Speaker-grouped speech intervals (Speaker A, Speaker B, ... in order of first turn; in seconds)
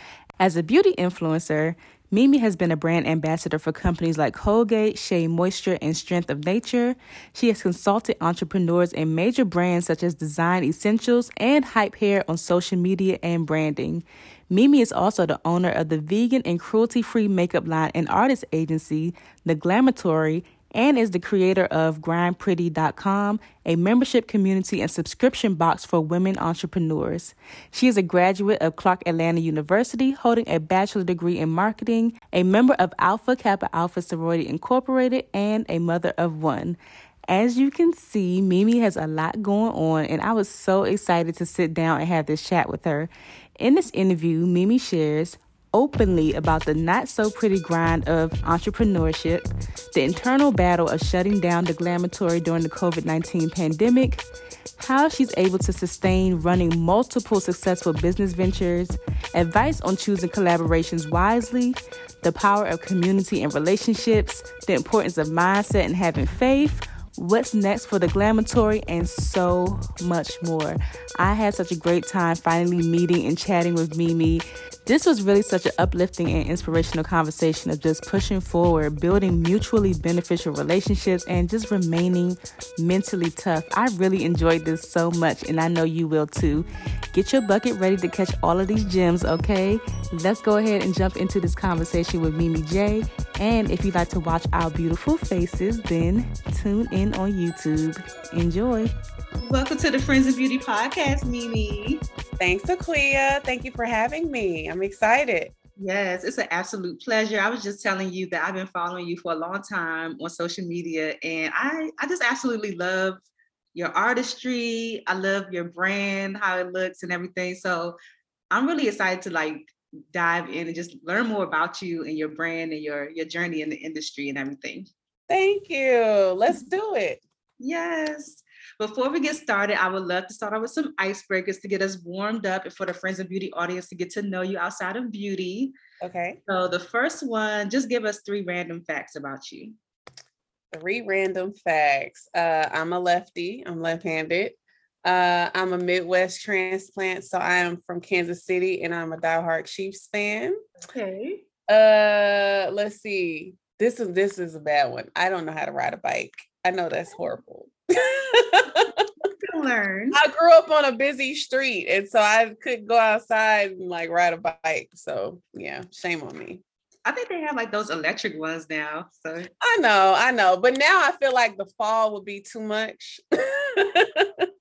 Speaker A: 0.4-54.2, 54.8-98.9
Speaker B: 99.4-102.0, 105.8-113.2, 113.8-118.0, 118.5-124.9, 127.6-135.7, 136.5-139.8, 150.8-151.4, 159.4-160.2, 167.1-169.5
Speaker C: 102.4-105.5, 125.3-127.2, 136.0-136.4, 140.7-150.6, 151.7-159.1, 160.1-166.6, 169.6-174.5